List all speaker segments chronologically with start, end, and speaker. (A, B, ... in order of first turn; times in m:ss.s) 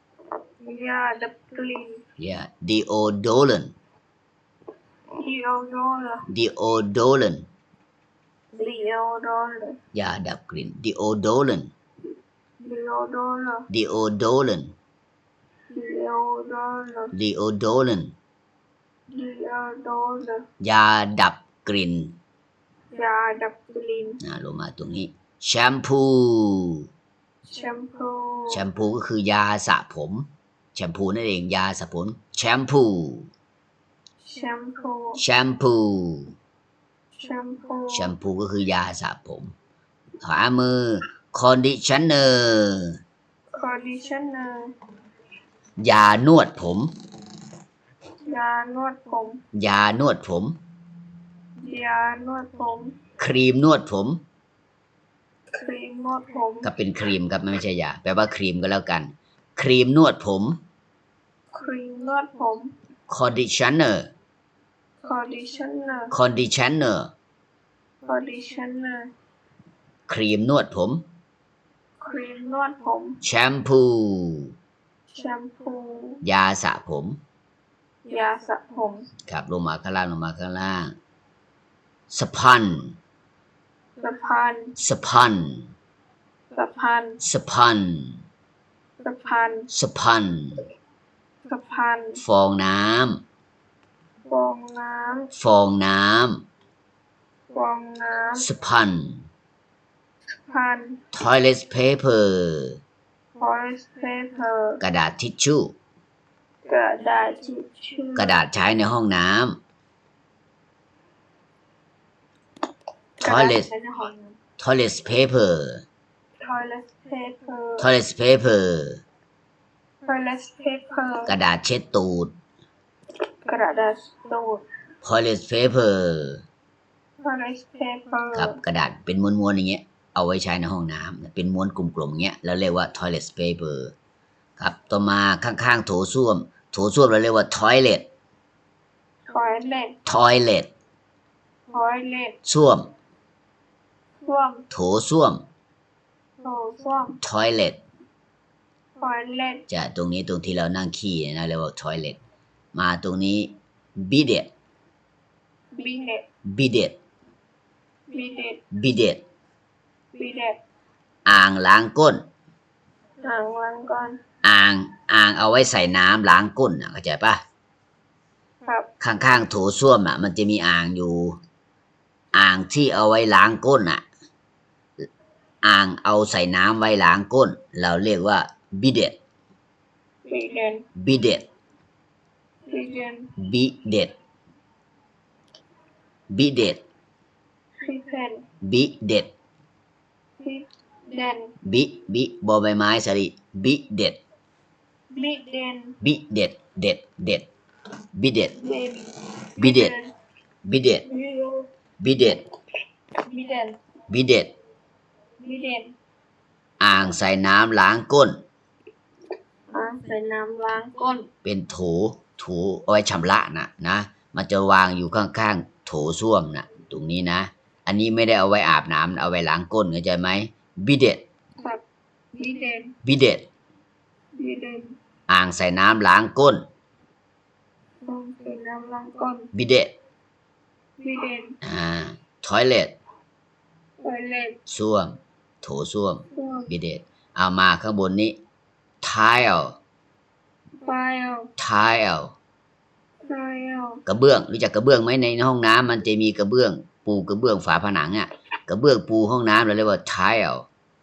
0:00.6-0:02.0 A
0:02.2-0:03.7 B
0:05.2-0:06.2 A
0:06.3-0:07.5 B
0:08.5-0:09.8 A
0:09.9-0:11.7 B
0:12.6-0:13.6 A
0:13.7-0:14.7 B
0:15.7-0:17.1 A
0:17.1-0:18.1 B
0:19.1-0:20.4 A
0:20.6-0:22.1 B
0:22.9-0:24.2 A
0:24.2-0:26.9 B
0:27.5-0:28.6 A
0:28.5-0:33.3 B
0:34.2-0:35.2 A
0:35.2-0:36.3 B
0:37.2-0:38.1 A
0:37.9-0:39.5 B
0:40.2-0:43.0 B
0:43.5-0:44.7 A
0:45.8-0:46.9 B
0:48.2-0:49.4 A
0:49.5-0:50.6 B
0:51.6-0:53.0 A
0:53.2-0:54.2 B
0:55.6-0:56.7 A
0:56.6-1:00.6 B
1:01.5-1:02.7 A
1:03.1-1:04.1 B
1:05.0-1:06.1 A
1:06.1-1:07.1 B
1:08.0-1:09.1 A
1:10.1-1:11.0 B
1:12.0-1:13.2 A
1:13.2-1:14.5 B
1:15.1-1:16.2 A
1:16.2-1:17.2 B
1:18.1-1:19.0 A
1:19.3-1:20.9 B
1:22.1-1:22.9 B
1:24.0-1:24.7 A
1:24.8-1:25.7 B
1:26.5-1:27.2 A
1:27.2-1:28.2 B
1:29.0-1:29.6 A
1:29.7-1:30.6 B
1:31.4-1:32.2 A
1:32.2-1:33.2 B
1:34.2-1:35.3 A
1:35.3-1:36.4 B
1:37.5-1:38.4 A
1:38.4-1:39.3 B
1:40.5-1:41.0 A
1:41.1-1:42.8 B
1:43.4-1:44.8 A
1:44.8-1:45.7 B
1:46.6-1:48.3 A
1:48.2-1:49.6 B
1:53.2-1:53.7 B
1:53.2-1:54.3 A
1:54.6-1:55.8 B
1:56.4-1:57.9 A
1:57.8-1:59.0 B
2:00.0-2:01.3 A
2:01.3-2:02.3 B
2:03.4-2:04.6 A
2:05.0-2:06.4 B
2:07.2-2:08.6 A
2:08.3-2:13.9 B
2:14.6-2:18.1 B
2:19.3-2:19.9 A
2:20.0-2:20.7 B
2:21.7-2:22.3 A
2:22.4-2:22.9 B
2:24.2-2:24.6 A
2:24.7-2:25.4 B
2:26.4-2:27.2 A
2:27.2-2:27.8 B
2:29.0-2:29.6 A
2:29.7-2:32.2 B
2:32.7-2:34.5 B
2:35.7-2:36.2 A
2:36.5-2:37.0 B
2:38.1-2:38.6 A
2:38.7-2:39.2 B
2:40.1-2:40.6 A
2:41.2-2:42.2 B
2:43.2-2:44.2 A
2:44.4-2:47.4 B
2:49.0-2:51.4 B
2:52.3-2:54.0 B
2:55.6-2:59.2 B
3:00.2-3:00.8 A
3:01.0-3:01.4 B
3:02.7-3:03.3 A
3:03.4-3:04.1 B
3:06.3-3:06.8 B
3:07.8-3:08.4 A
3:08.6-3:09.3 B
3:10.4-3:11.5 A
3:11.6-3:14.2 B
3:15.1-3:16.0 A
3:16.0-3:17.5 B
3:18.2-3:18.6 B
3:18.6-3:20.1 A
3:19.6-3:19.9 B
3:20.6-3:21.0 B
3:21.0-3:21.6 A
3:22.0-3:22.4 B
3:23.2-3:23.8 A
3:24.1-3:24.5 B
3:25.4-3:25.9 A
3:26.8-3:28.4 B
3:29.7-3:31.3 A
3:31.4-3:41.2 B
3:41.6-3:42.9 A
3:43.0-3:43.4 B
3:44.4-3:45.0 A
3:45.3-3:46.6 B
3:48.0-3:49.5 A
3:49.5-3:49.9 B
3:51.0-3:51.6 A
3:51.6-3:53.0 B
3:54.0-3:54.6 A
3:54.7-3:58.4 B
3:56.3-3:56.7 A
3:59.0-3:59.8 B
4:00.8-4:01.5 A
4:01.6-4:02.3 B
4:03.2-4:04.0 A
4:04.0-4:10.7 B